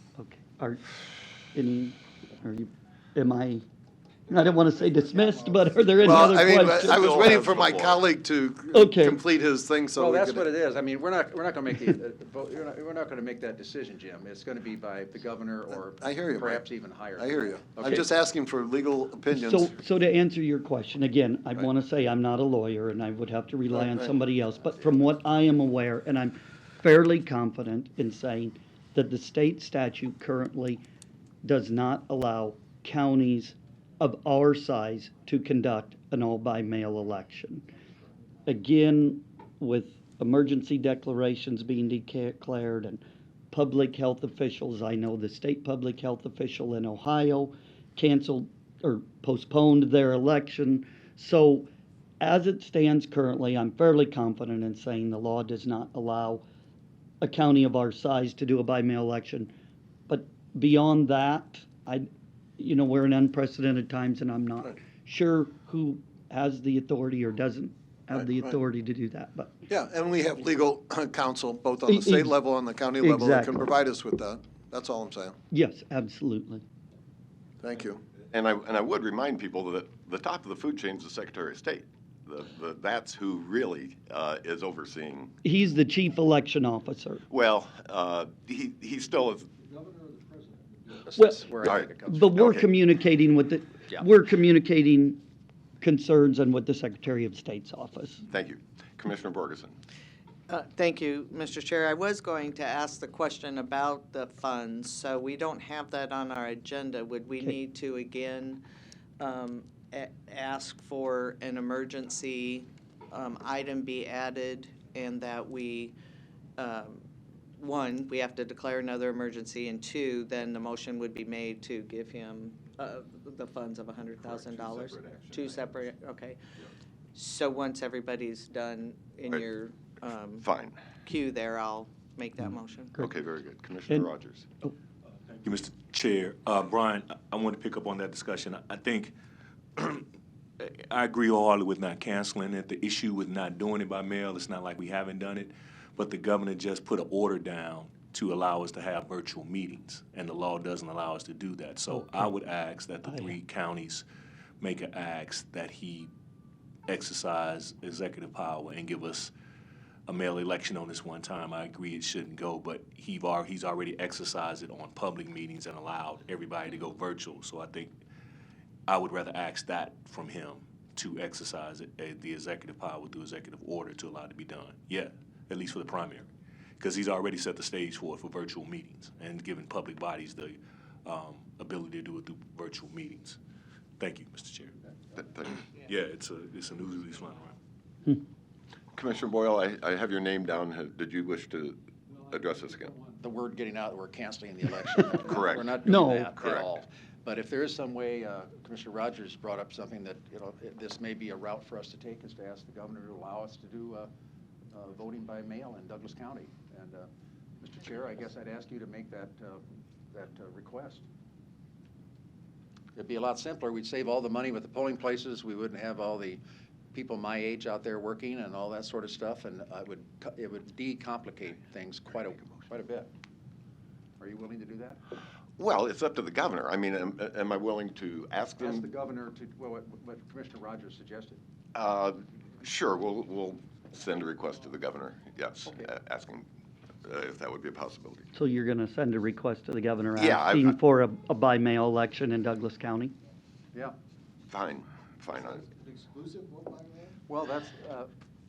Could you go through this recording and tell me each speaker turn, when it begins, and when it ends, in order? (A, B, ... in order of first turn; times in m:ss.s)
0:00.2-0:00.8 A
0:01.5-0:03.6 A
0:04.3-0:07.4 A
0:06.0-0:10.5 B
0:06.9-0:08.0 C
0:08.7-0:09.2 A
0:10.0-0:18.0 D
0:16.0-0:16.6 B
0:17.2-0:19.7 B
0:19.3-0:30.8 A
0:31.4-0:37.6 A
0:38.4-0:51.7 A
0:52.2-0:56.4 A
0:57.2-0:59.5 A
1:00.1-1:02.1 A
1:02.6-1:09.6 A
1:09.7-1:15.4 B
1:11.9-1:12.4 A
1:13.0-1:13.6 A
1:15.5-1:16.6 A
1:17.6-1:18.0 B
1:18.3-1:25.3 C
1:25.4-1:27.2 A
1:27.3-1:29.5 C
1:29.9-1:30.5 B
1:30.9-1:32.3 D
1:31.2-1:31.5 A
1:31.6-1:32.7 C
1:32.1-1:35.2 A
1:35.8-1:38.2 A
1:38.3-1:39.8 C
1:40.5-1:48.6 E
1:49.2-1:55.9 E
1:56.6-1:57.0 E
1:57.6-2:06.4 E
2:04.2-2:05.7 C
2:07.1-2:10.5 E
2:10.4-2:10.8 C
2:11.0-2:12.9 E
2:13.0-2:14.5 C
2:15.4-2:19.1 F
2:19.8-2:20.0 F
2:20.6-2:34.0 F
2:33.1-2:33.3 A
2:34.6-2:36.1 F
2:36.9-2:39.3 F
2:40.1-2:47.9 F
2:48.9-2:56.3 F
2:56.8-3:03.4 F
3:04.0-3:04.8 F
3:05.2-3:05.6 C
3:05.5-3:07.6 F
3:08.9-3:13.0 C
3:13.2-3:24.1 D
3:15.2-3:15.8 C
3:15.8-3:16.3 A
3:16.4-3:16.7 C
3:24.7-3:31.0 D
3:32.9-3:36.4 D
3:36.9-3:43.1 D
3:44.2-3:45.0 D
3:45.6-3:48.9 C
3:48.6-3:51.4 D
3:51.7-3:56.4 C
3:57.0-3:58.2 C
3:58.3-4:03.1 A
4:00.2-4:00.8 C
4:04.5-4:05.7 C
4:06.1-4:07.1 B
4:07.3-4:08.1 D